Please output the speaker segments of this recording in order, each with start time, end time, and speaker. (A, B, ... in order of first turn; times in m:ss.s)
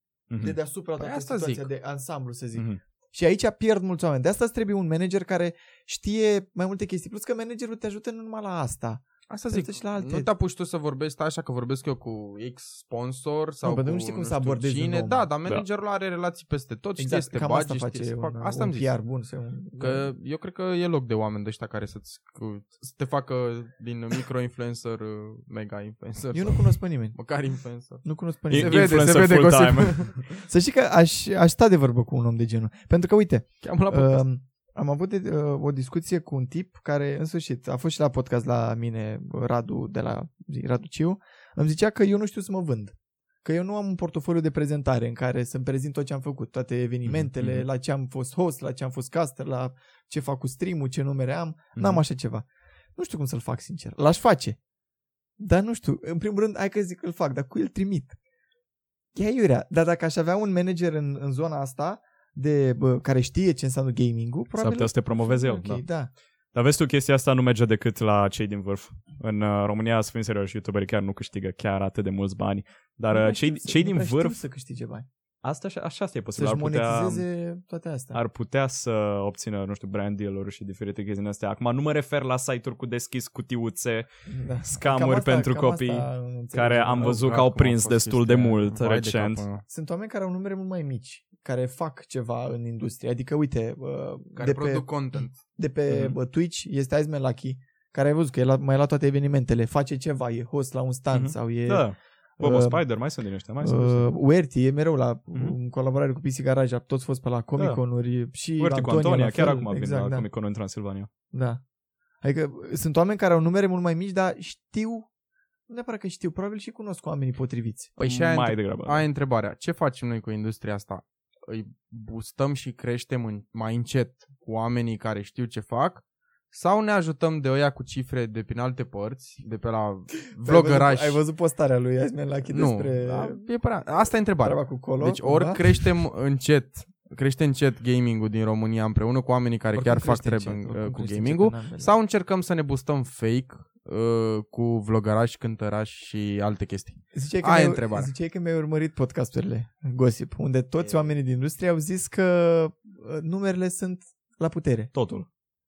0:00.3-0:00.6 A
0:00.4-0:10.3 B
0:01.0-0:01.7 C
0:09.3-0:18.9 C
0:13.6-0:15.3 B
0:17.0-0:20.1 B
0:19.8-0:30.2 C
0:26.3-0:27.2 B
0:28.0-0:29.2 B
0:28.5-0:30.2 A
0:30.3-0:54.6 B
0:33.6-0:34.2 C
0:47.0-0:47.7 A
0:55.4-0:58.2 B
0:59.2-1:06.1 B
1:04.6-1:05.8 A
1:06.5-1:14.4 A
1:13.1-1:15.1 B
1:15.4-1:17.2 A
1:16.4-1:18.2 B
1:18.1-1:24.1 A
1:24.3-1:27.2 B
1:24.6-1:29.4 A
1:27.0-1:29.6 C
1:29.7-1:34.9 B
1:34.4-1:35.4 C
1:35.4-1:41.9 B
1:35.9-1:36.2 A
1:41.1-1:44.1 A
1:42.4-1:42.8 B
1:43.6-1:50.3 B
1:47.6-1:47.8 A
1:48.6-1:51.1 A
1:51.3-1:51.6 B
1:52.2-1:55.1 B
1:55.7-1:58.0 B
1:58.0-2:11.2 C
1:58.0-1:59.1 A
2:10.4-2:13.4 B
2:12.5-2:28.1 C
2:14.4-2:15.7 B
2:19.7-2:21.9 B
2:27.1-2:34.9 B
2:30.8-2:31.1 C
2:34.9-2:35.3 A